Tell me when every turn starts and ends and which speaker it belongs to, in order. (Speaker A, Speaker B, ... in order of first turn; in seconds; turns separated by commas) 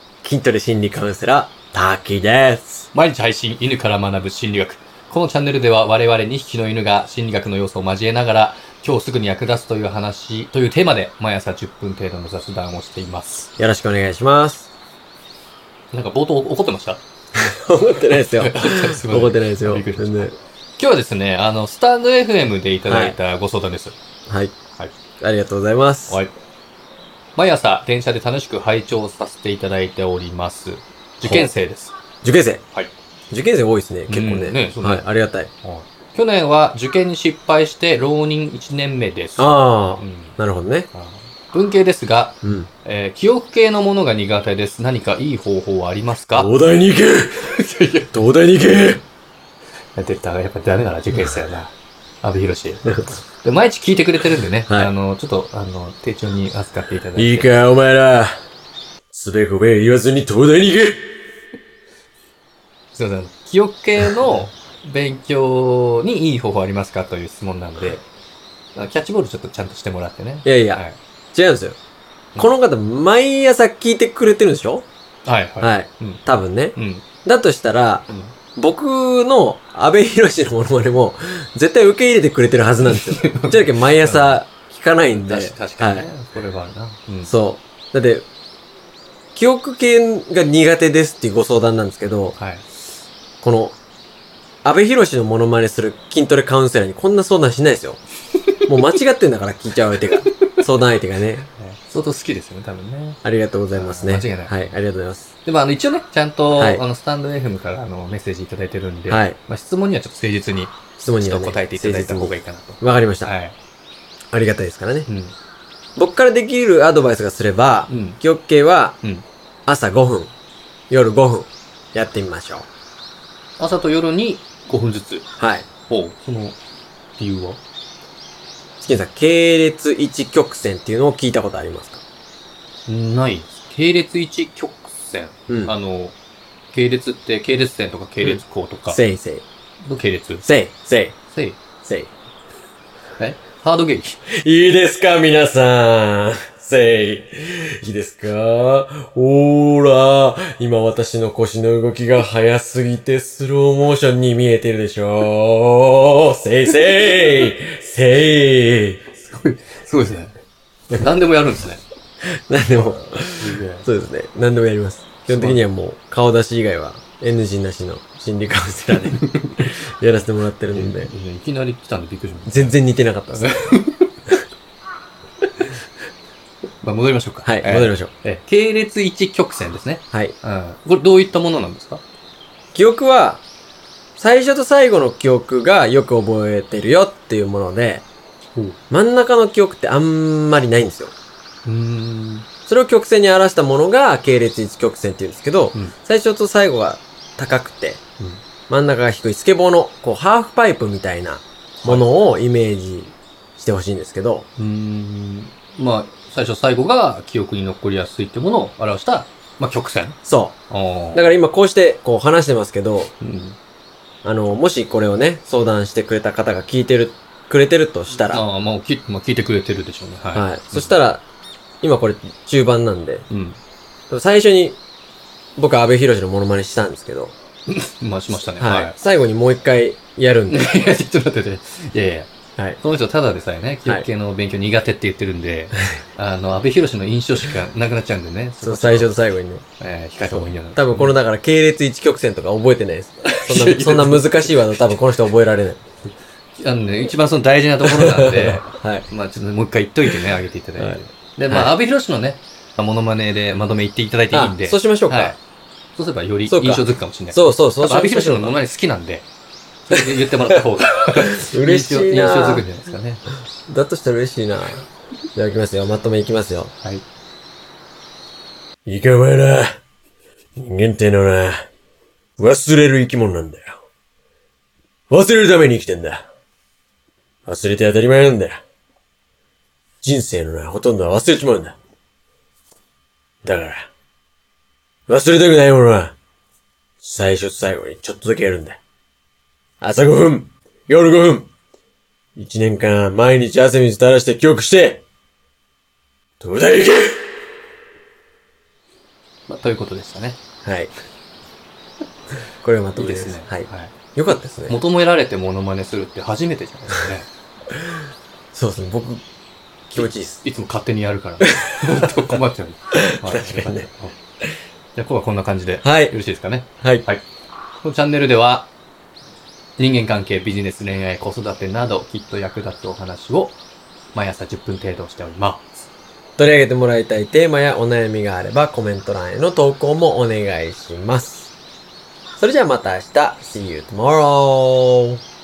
Speaker A: 0.2-2.9, Speaker B: 2.9-13.5, Speaker A: 13.6-14.7, Speaker B: 15.9-17.0, Speaker A: 17.3-20.3, Speaker B: 18.1-24.0, Speaker A: 22.9-23.2, Speaker A: 24.3-24.6, Speaker A: 25.2-26.2, Speaker B: 27.4-31.9, Speaker A: 31.2-31.5, Speaker A: 32.2-32.6, Speaker A: 33.3-35.5, Speaker B: 34.1-35.0, Speaker B: 35.6-40.4, Speaker A: 39.4-40.9, Speaker B: 40.9-46.5, Speaker A: 42.4-42.7, Speaker A: 46.3-47.6, Speaker B: 47.4-48.1, Speaker A: 48.1-49.0, Speaker B: 50.0-57.6, Speaker A: 52.9-53.1, Speaker A: 54.7-54.9, Speaker A: 57.2-58.4, Speaker A: 59.1-61.1, Speaker B: 62.9-68.0, Speaker B: 68.8-71.0, Speaker A: 70.4-70.8, Speaker A: 71.3-71.8, Speaker A: 72.4-74.8, Speaker B: 75.2-76.2, Speaker A: 75.6-86.1, Speaker B: 76.8-77.0, Speaker B: 78.1-78.3, Speaker B: 82.9-84.4, Speaker B: 85.1-87.3, Speaker A: 87.2-88.3, Speaker A: 89.3-92.3, Speaker B: 92.4-92.7, Speaker A: 93.4-93.8, Speaker A: 94.6-98.0, Speaker A: 98.7-101.5, Speaker B: 101.5-103.2, Speaker A: 103.2-105.3, Speaker B: 103.7-104.7, Speaker B: 105.4-113.6, Speaker A: 106.5-106.8, Speaker A: 109.1-109.4, Speaker A: 111.0-113.3, Speaker A: 114.3-115.1, Speaker B: 115.1-115.3, Speaker A: 116.0-119.0, Speaker B: 117.9-118.2, Speaker A: 119.7-120.3, Speaker A: 120.9-122.7, Speaker B: 123.6-125.2, Speaker A: 125.4-125.7, Speaker B: 125.9-126.6, Speaker B: 127.2-127.6, Speaker A: 128.8-132.0, Speaker B: 132.9-136.2, Speaker A: 135.5-135.7, Speaker B: 136.7-139.0, Speaker A: 138.2-139.4, Speaker B: 139.8-140.4, Speaker A: 140.4-141.2, Speaker B: 141.3-141.6, Speaker A: 141.8-142.1, Speaker B: 143.2-144.2, Speaker A: 144.3-159.0, Speaker B: 157.0-157.5, Speaker B: 159.1-160.4, Speaker B: 160.9-161.8, Speaker A: 162.2-171.1, Speaker B: 162.7-163.9, Speaker B: 165.3-165.6, Speaker B: 169.1-169.7, Speaker B: 170.7-172.8, Speaker A: 172.4-173.8, Speaker B: 173.3-174.1, Speaker B: 176.8-182.0, Speaker A: 177.4-178.1, Speaker A: 182.7-183.4, Speaker A: 184.2-188.0, Speaker A: 188.9-191.1, Speaker B: 191.6-192.4, Speaker A: 192.7-198.0, Speaker A: 198.7-204.5, Speaker B: 201.8-202.0, Speaker B: 204.6-210.2, Speaker A: 210.2-210.6, Speaker B: 210.7-211.3, Speaker A: 211.1-213.1, Speaker B: 213.2-213.6, Speaker A: 214.2-218.4, Speaker B: 218.2-220.9, Speaker A: 220.3-221.2, Speaker A: 221.8-223.3, Speaker B: 223.3-223.6, Speaker A: 224.1-224.8, Speaker A: 225.6-227.3, Speaker B: 227.7-228.9, Speaker A: 228.3-230.7, Speaker B: 230.5-239.1, Speaker A: 238.6-239.6, Speaker B: 239.8-241.1, Speaker A: 240.2-245.8, Speaker B: 243.2-244.9, Speaker B: 246.6-255.4, Speaker A: 247.8-249.1, Speaker A: 250.8-251.8, Speaker A: 254.3-255.4, Speaker B: 255.9-259.3, Speaker A: 256.5-258.6, Speaker B: 259.9-263.2, Speaker A: 259.9-260.6, Speaker A: 261.3-262.6, Speaker A: 263.7-266.7, Speaker A: 268.9-269.8, Speaker A: 270.6-271.6, Speaker A: 272.4-273.8, Speaker A: 275.1-276.2, Speaker A: 277.4-278.6, Speaker A: 280.0-281.8, Speaker A: 283.4-283.9, Speaker A: 285.1-286.1, Speaker A: 287.0-288.8, Speaker A: 289.8-291.5, Speaker A: 292.4-295.0, Speaker A: 296.4-297.3, Speaker B: 299.5-300.4, Speaker A: 300.6-300.9, Speaker A: 302.6-304.8, Speaker B: 302.9-303.9, Speaker B: 304.7-307.3, Speaker A: 308.5-309.2, Speaker A: 309.9-310.4, Speaker B: 310.0-314.1, Speaker A: 312.9-313.9, Speaker B: 314.9-317.2, Speaker A: 315.8-316.1, Speaker B: 317.8-318.7, Speaker B: 319.8-323.6, Speaker B: 324.1-325.8, Speaker A: 326.4-331.5, Speaker A: 332.4-335.2